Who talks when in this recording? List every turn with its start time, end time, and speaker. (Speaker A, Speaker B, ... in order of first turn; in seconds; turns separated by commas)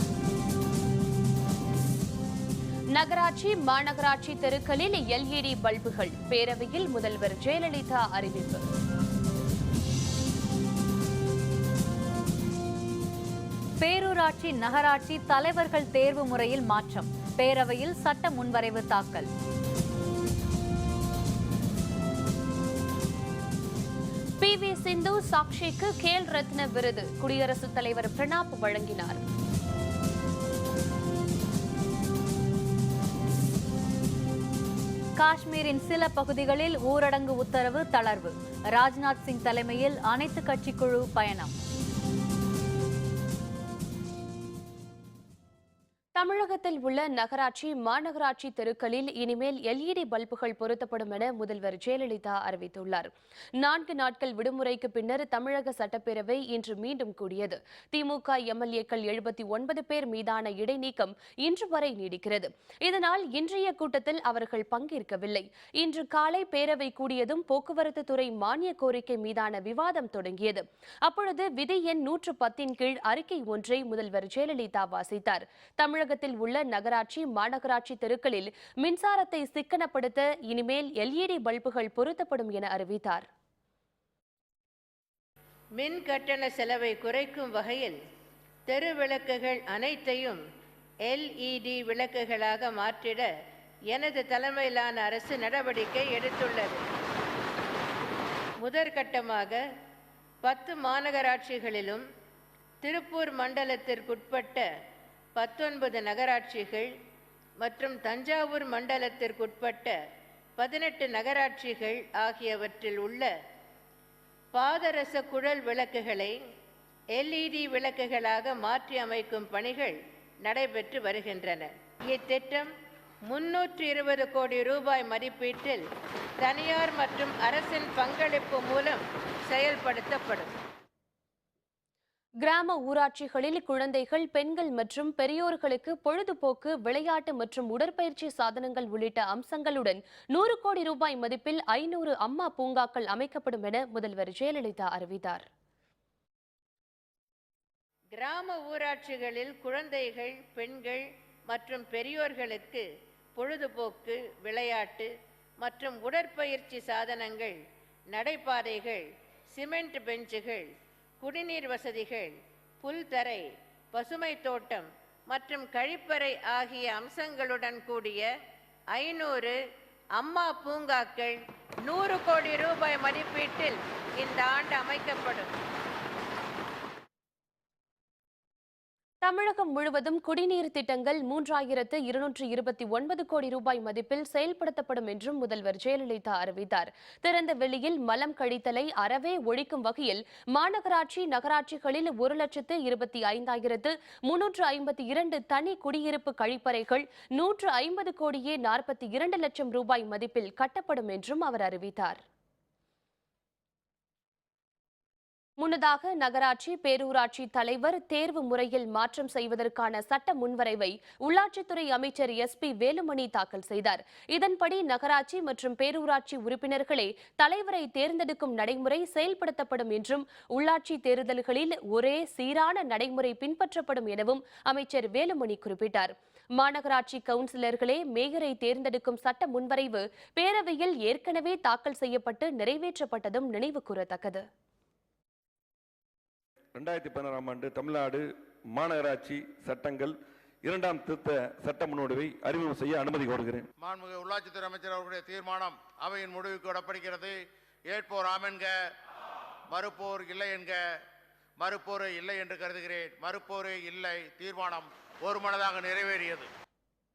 Speaker A: 3.0-8.7, Speaker B: 13.8-19.3, Speaker A: 24.4-29.2, Speaker B: 35.2-41.5, Speaker A: 46.2-83.2, Speaker C: 85.8-87.9, Speaker C: 88.7-90.4, Speaker C: 91.1-93.3, Speaker C: 93.9-96.8, Speaker C: 98.6-99.6, Speaker C: 100.4-102.0, Speaker C: 102.8-104.7, Speaker C: 105.3-106.9, Speaker C: 107.6-110.0, Speaker C: 110.6-113.3, Speaker C: 114.5-116.3, Speaker C: 117.2-122.7, Speaker C: 123.3-125.8, Speaker C: 126.4-130.5, Speaker A: 132.4-145.4, Speaker C: 148.2-152.8, Speaker C: 153.3-155.1, Speaker C: 155.6-157.6, Speaker C: 158.1-159.0, Speaker C: 159.5-160.7, Speaker C: 161.2-168.3, Speaker C: 168.9-169.6, Speaker C: 170.2-175.5, Speaker A: 179.2-202.2, Speaker A: 205.6-234.4, Speaker D: 236.7-243.7, Speaker E: 243.8-248.9, Speaker E: 249.7-251.0, Speaker E: 251.6-256.5